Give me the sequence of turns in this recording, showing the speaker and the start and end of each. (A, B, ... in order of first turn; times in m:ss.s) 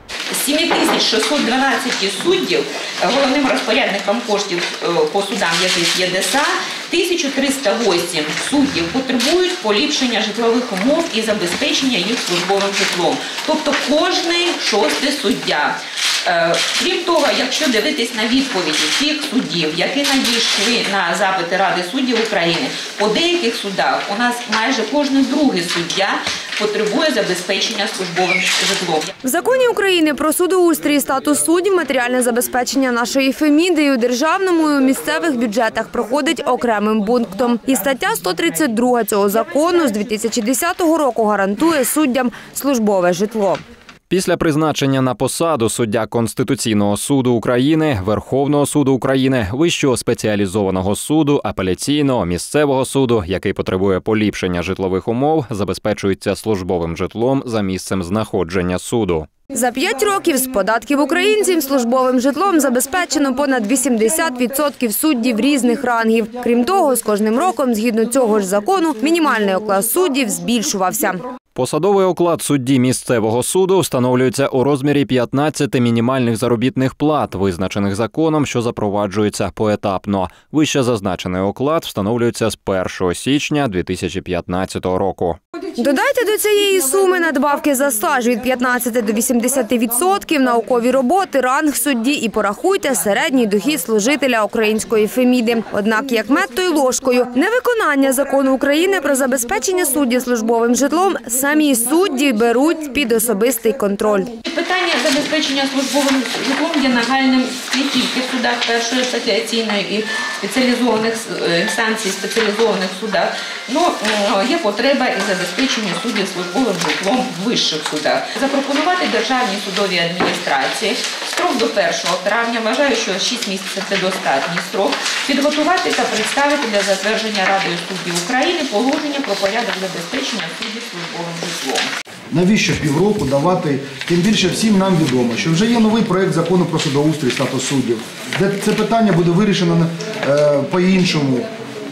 0:00.3-0:29.1 A
0:29.2-0:43.6 B
0:44.1-0:59.3 C
0:59.5-1:11.2 B
1:11.6-1:25.4 C
1:25.8-1:44.3 B
1:44.4-2:11.9 A
2:12.3-2:21.5 D